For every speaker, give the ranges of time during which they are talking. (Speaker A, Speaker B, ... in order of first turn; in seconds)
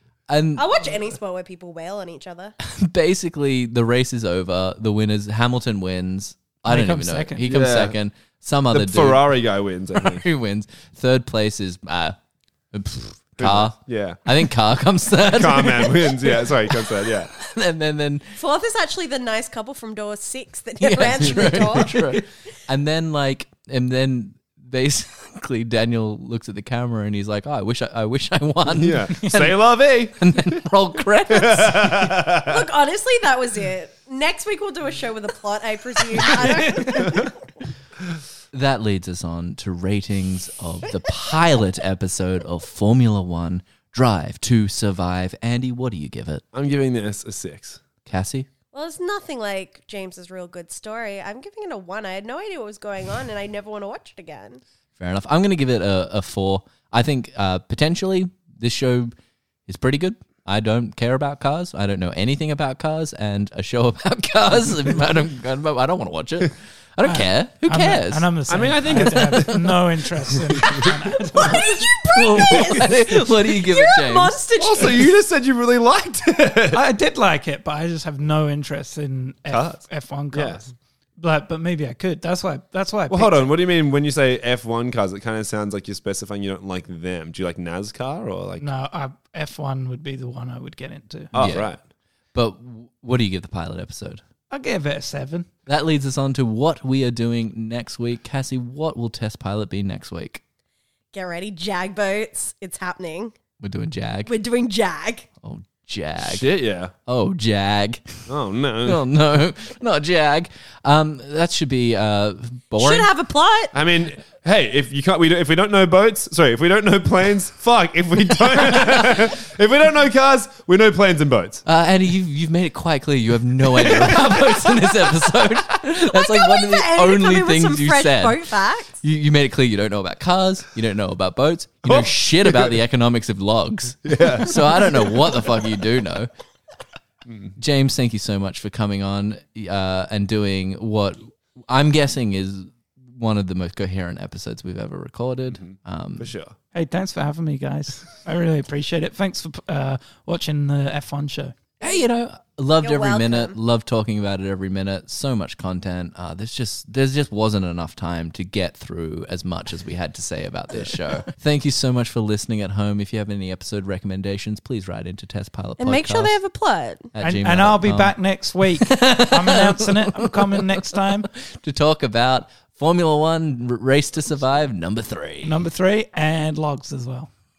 Speaker A: 0.3-0.6, 2.6-9.2, 9.9-12.2, 12.7-18.3, 20.8-29.6, 30.2-32.2, 38.5-46.4, 48.0-48.5, 55.0-59.1, 59.7-68.3, 72.0-74.3, 91.3-91.7, 92.3-94.2, 95.7-100.4, 103.6-104.3, 105.4-106.4, 107.0-108.2, 108.8-113.1, 118.6-119.2, 121.6-128.4, 129.0-136.3, 137.6-146.3, 151.8-166.3, 167.1-168.1, 168.7-175.5
Speaker B: 0.5-2.5, 18.4-22.2, 32.4-37.3, 48.7-54.6, 70.8-75.1, 101.1-103.3, 104.2-105.3, 112.8-113.7, 126.0-129.0, 152.8-153.6, 165.8-167.1
Speaker C: 6.7-7.5, 36.4-37.1, 67.0-71.8, 76.7-83.5, 88.6-91.3, 94.5-95.5, 146.7-151.6, 167.2-171.3, 175.4-177.3
Speaker D: 7.5-7.9, 8.7-10.2, 13.4-14.2, 15.2-17.3, 28.7-30.5, 31.3-32.5, 46.5-47.8, 68.5-70.7, 74.6-76.8, 79.5-80.7, 83.1-88.7, 91.3-91.8, 106.2-106.9, 108.3-109.0, 113.7-121.6, 124.0-124.3, 131.9-132.7, 134.0-135.1, 145.6-146.5